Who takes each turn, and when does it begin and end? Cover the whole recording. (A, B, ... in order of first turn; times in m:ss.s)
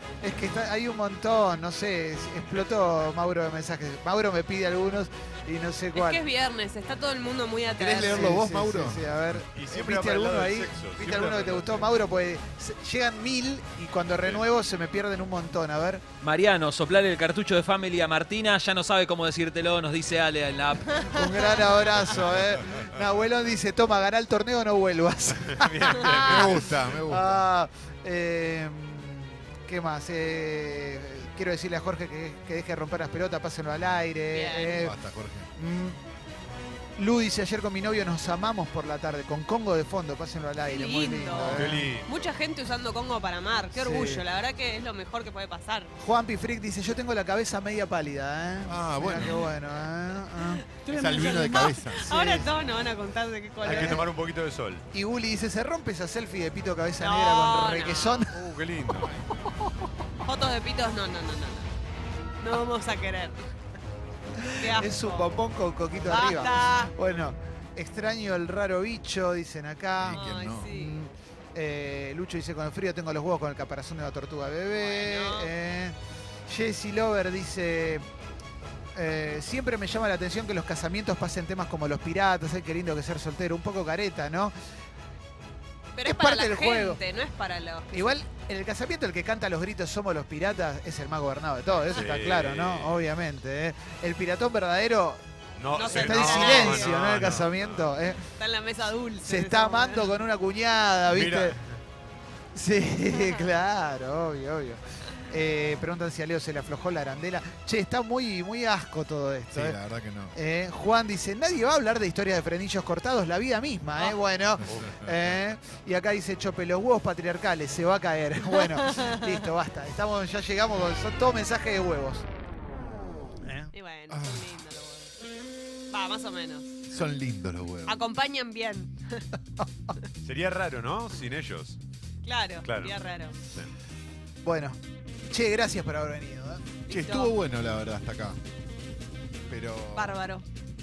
0:00.2-0:06.2 A
0:05.9-0:08.4 B
0:07.7-0:09.1 C
0:07.9-0:16.0 A
0:09.5-0:11.9 D
0:16.2-0:21.1 E
0:21.0-0:35.0 A
0:25.4-0:27.0 D
0:26.1-0:27.4 C
0:34.3-0:34.8 B
0:34.8-0:35.5 C
0:35.5-0:36.0 A
0:37.0-0:41.9 A
0:40.6-0:45.9 B
0:41.3-0:42.2 D
0:43.7-0:44.2 A
0:46.0-0:50.6 A
0:48.6-0:49.5 C
0:50.5-0:54.0 B
0:50.9-0:52.4 C
0:52.1-0:52.4 A
0:53.6-0:54.1 A
0:53.6-0:54.8 D
0:54.9-0:58.5 A
0:57.0-0:58.3 B
0:58.3-0:59.3 D
1:00.2-1:01.7 B
1:02.4-1:03.5 B
1:04.4-1:16.0 A
1:04.6-1:05.3 B
1:06.0-1:06.9 B
1:10.0-1:10.7 C
1:10.1-1:11.0 B
1:14.8-1:15.5 B
1:16.5-1:18.0 A
1:18.9-1:24.5 A
1:25.9-1:28.2 B
1:26.0-1:27.0 A
1:27.9-1:35.2 A
1:31.9-1:33.0 D
1:35.6-1:37.9 D
1:35.7-1:37.0 B
1:35.8-1:38.3 A
1:38.2-1:40.1 B
1:39.2-1:41.6 A
1:41.1-1:41.7 D
1:42.5-1:49.8 A
1:49.5-1:50.4 C
1:50.3-2:02.3 A
1:54.6-1:55.0 D
1:54.6-1:55.2 C
1:58.6-1:59.2 B
2:03.4-2:03.7 A
2:03.7-2:05.1 B
2:04.1-2:04.5 C
2:05.9-2:06.7 B
2:06.9-2:08.0 C
2:07.8-2:09.2 B
2:10.2-2:11.8 D
2:12.2-2:13.4 B
2:12.6-2:12.9 D
2:14.4-2:16.7 A
2:16.9-2:17.3 B
2:16.9-2:18.4 C
2:19.5-2:20.2 C
2:19.9-2:20.4 B